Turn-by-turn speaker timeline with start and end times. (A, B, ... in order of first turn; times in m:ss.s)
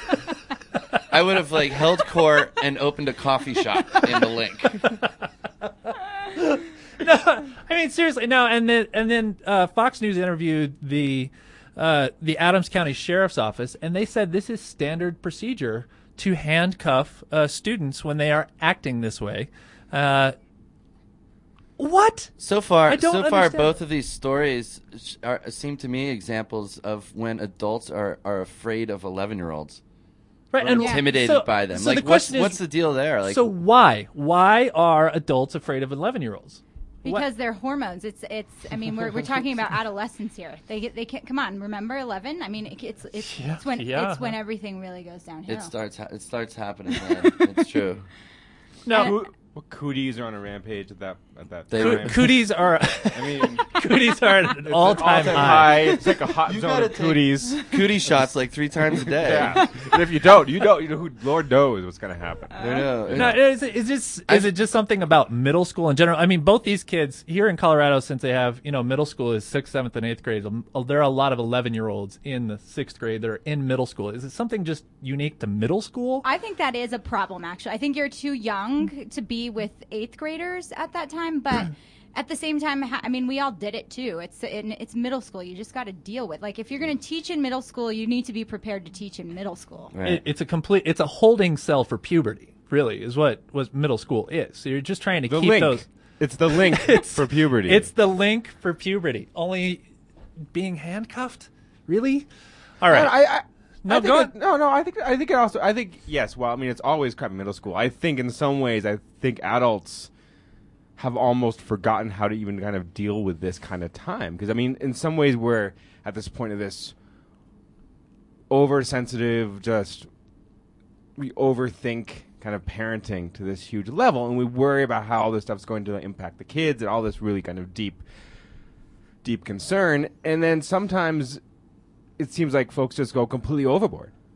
0:01.1-0:04.9 A
0:06.3-0:20.3 B
0:21.8-0:22.3 B
0:22.4-0:29.8 A
0:22.9-0:23.8 B
0:30.5-0:32.6 B
0:30.6-0:33.5 A
0:30.8-0:31.0 C
0:33.2-0:37.2 B
0:37.0-0:45.7 C
0:43.2-0:44.3 B
0:45.5-0:48.0 A
0:48.8-0:49.2 B
0:48.9-0:52.3 D
0:51.7-0:52.4 A
0:51.8-0:55.9 B
0:53.1-0:53.7 D
0:54.6-0:57.6 D
0:55.2-0:59.7 A
0:59.1-1:03.4 D
1:02.6-1:03.5 A
1:03.1-1:16.2 B
1:16.2-1:29.9 C
1:29.9-1:30.2 A
1:30.0-1:35.8 B
1:35.3-1:37.9 D
1:36.6-1:39.8 B
1:40.5-1:42.3 B
1:42.8-1:43.2 B
1:42.9-1:50.1 D
1:43.8-1:44.3 B
1:51.0-1:56.9 D
1:58.5-2:00.1 D
2:01.2-2:08.0 D
2:09.2-2:11.4 D
2:12.2-2:14.1 D